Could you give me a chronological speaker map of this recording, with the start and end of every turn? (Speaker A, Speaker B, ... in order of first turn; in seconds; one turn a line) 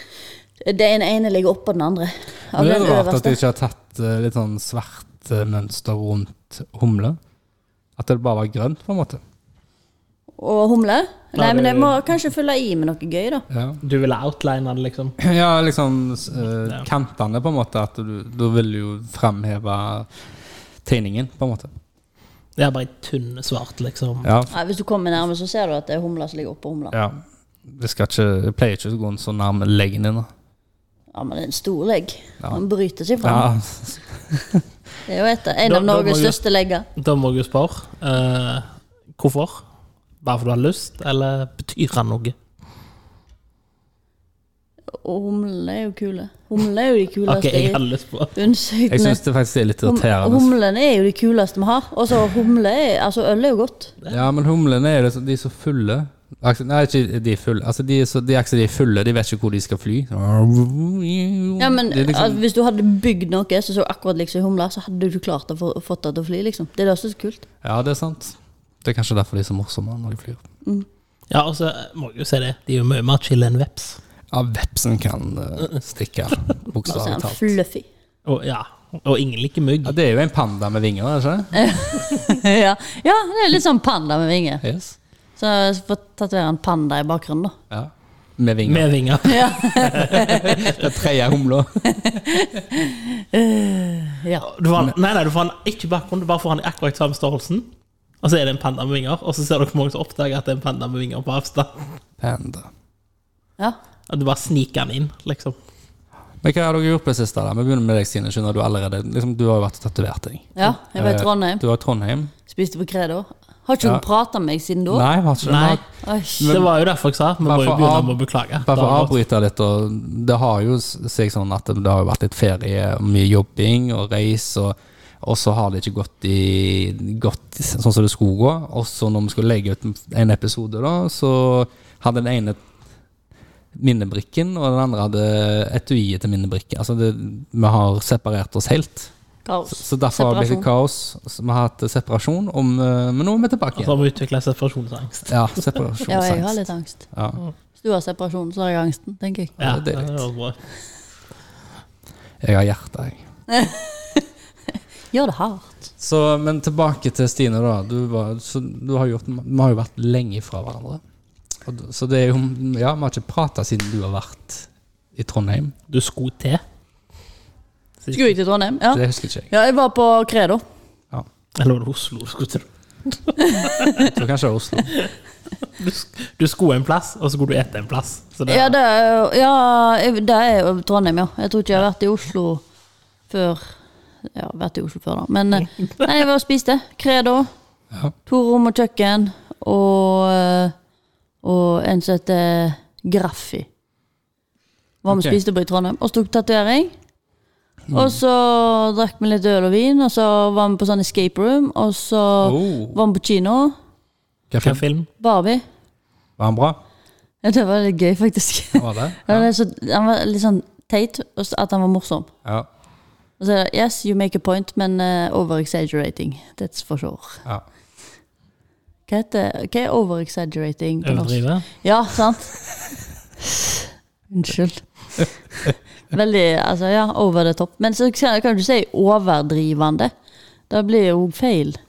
Speaker A: 0.6-3.4
Speaker B: 2.5-7.2
Speaker B: 8.0-9.2
Speaker A: 10.4-13.4
Speaker C: 11.4-12.0
Speaker B: 13.5-13.8
Speaker C: 13.8-15.2
Speaker B: 15.2-20.1
Speaker B: 20.8-21.7
Speaker C: 22.6-24.3
Speaker B: 24.2-24.5
Speaker A: 24.5-27.0
Speaker B: 26.9-30.3
Speaker A: 31.1-33.5
Speaker B: 33.2-34.6
Speaker A: 35.1-36.9
Speaker C: 35.6-36.4
Speaker C: 37.0-39.6
Speaker C: 40.2-42.4
Speaker A: 45.0-47.8
Speaker C: 47.3-48.4
Speaker A: 48.3-49.2
Speaker B: 48.9-50.5
Speaker A: 49.8-53.9
Speaker B: 54.1-62.4
Speaker A: 61.6-67.4
Speaker B: 67.6-70.4
Speaker C: 71.3-74.0
Speaker B: 74.3-77.5
Speaker A: 76.8-77.9
Speaker C: 78.2-80.0
Speaker B: 79.8-81.7
Speaker A: 81.5-84.6
Speaker B: 84.6-85.0
Speaker A: 85.4-87.5
Speaker B: 87.7-88.9
Speaker C: 88.6-90.9
Speaker A: 89.2-90.7
Speaker B: 90.1-92.3
Speaker A: 91.9-94.5
Speaker C: 94.4-97.7
Speaker C: 98.2-101.9
Speaker B: 102.2-102.7
Speaker C: 104.1-105.6
Speaker B: 106.4-112.3
Speaker A: 110.5-111.6
Speaker A: 112.5-115.0
Speaker B: 114.9-115.8
Speaker C: 115.4-115.8
Speaker A: 116.0-116.5
Speaker C: 116.4-119.1
Speaker B: 116.4-116.7
Speaker B: 117.4-132.6
Speaker B: 133.7-139.1
Speaker A: 139.4-140.7
Speaker B: 139.7-144.0
Speaker C: 143.8-145.8
Speaker B: 145.3-147.4
Speaker A: 146.1-147.1
Speaker A: 147.8-149.6
Speaker B: 149.6-150.2
Speaker C: 149.6-150.6
Speaker B: 152.4-153.2
Speaker A: 153.5-154.2
Speaker A: 155.1-155.8
Speaker B: 156.0-161.0
Speaker B: 161.6-165.7
Speaker C: 165.9-166.6
Speaker A: 168.1-170.6
Speaker B: 168.9-169.5
Speaker C: 171.6-173.9
Speaker A: 173.4-174.1
Speaker B: 173.9-174.9
Speaker C: 175.6-178.7
Speaker A: 178.5-182.6
Speaker A: 183.3-183.7
Speaker A: 184.3-187.5
Speaker A: 188.2-190.7
Speaker A: 191.4-193.7
Speaker A: 195.0-196.9
Speaker B: 195.1-195.4
Speaker B: 197.9-198.2
Speaker A: 197.9-203.8
Speaker B: 202.4-203.0
Speaker B: 204.5-204.8
Speaker C: 204.6-205.1
Speaker A: 205.2-205.6
Speaker B: 206.4-206.8
Speaker A: 207.4-212.3
Speaker B: 208.7-209.5
Speaker A: 213.4-217.4
Speaker A: 219.1-222.6
Speaker C: 221.0-221.7
Speaker A: 223.4-225.2
Speaker A: 226.1-230.1
Speaker A: 230.7-231.8